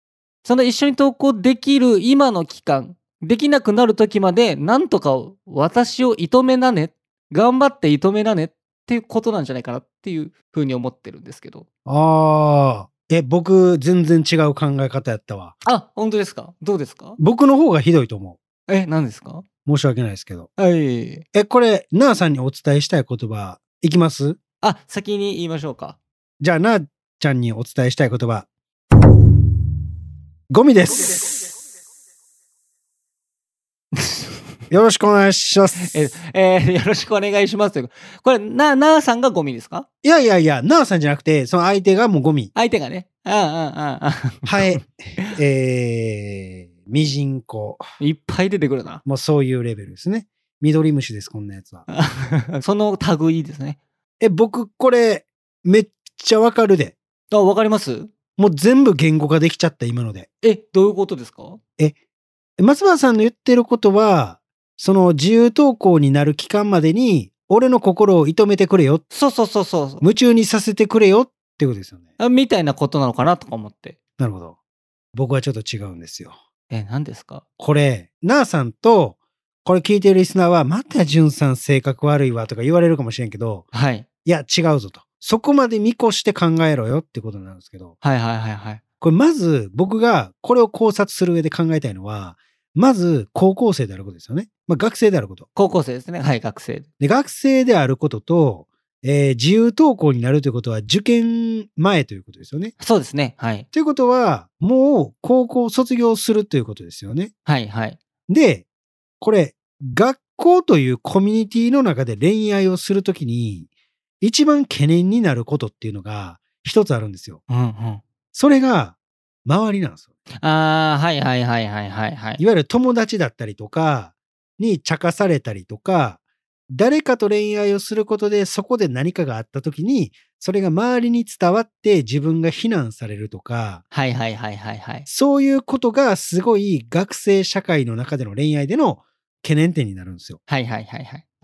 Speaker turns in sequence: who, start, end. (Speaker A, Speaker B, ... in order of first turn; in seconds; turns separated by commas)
Speaker A: 0.4-11.7, Speaker B: 11.8-15.6, Speaker A: 15.6-17.2, Speaker B: 17.2-18.4, Speaker A: 18.7-19.4, Speaker B: 19.6-20.5, Speaker A: 20.6-21.2, Speaker B: 21.3-24.4, Speaker A: 24.6-26.0, Speaker B: 26.4-28.5, Speaker B: 30.5-31.2, Speaker A: 33.9-34.4, Speaker B: 34.7-36.1, Speaker A: 35.8-39.9, Speaker B: 40.0-42.5, Speaker A: 42.5-45.3, Speaker B: 44.5-47.8, Speaker A: 48.0-49.0, Speaker B: 49.0-51.9, Speaker A: 51.9-53.8, Speaker B: 54.2-57.0, Speaker A: 57.3-58.1, Speaker B: 58.4-60.3, Speaker A: 60.4-61.6, Speaker B: 62.6-69.0, Speaker A: 69.1-70.0, Speaker B: 70.0-72.0, Speaker A: 72.2-74.0, Speaker B: 74.2-74.5, Speaker B: 75.1-76.4, Speaker A: 76.7-77.4, Speaker B: 77.6-83.7, Speaker A: 83.7-84.1, Speaker B: 84.2-87.9, Speaker A: 88.0-88.8, Speaker B: 89.0-95.5, Speaker A: 95.5-96.9, Speaker B: 97.0-102.7, Speaker A: 102.8-103.7, Speaker B: 103.7-107.3, Speaker A: 107.5-108.0, Speaker B: 108.3-108.7, Speaker B: 109.2-113.7, Speaker B: 114.2-117.4, Speaker A: 117.5-118.0, Speaker B: 118.3-120.0, Speaker A: 120.4-122.4, Speaker B: 122.4-133.8, Speaker A: 133.9-135.1, Speaker B: 135.1-140.4, Speaker A: 140.5-141.2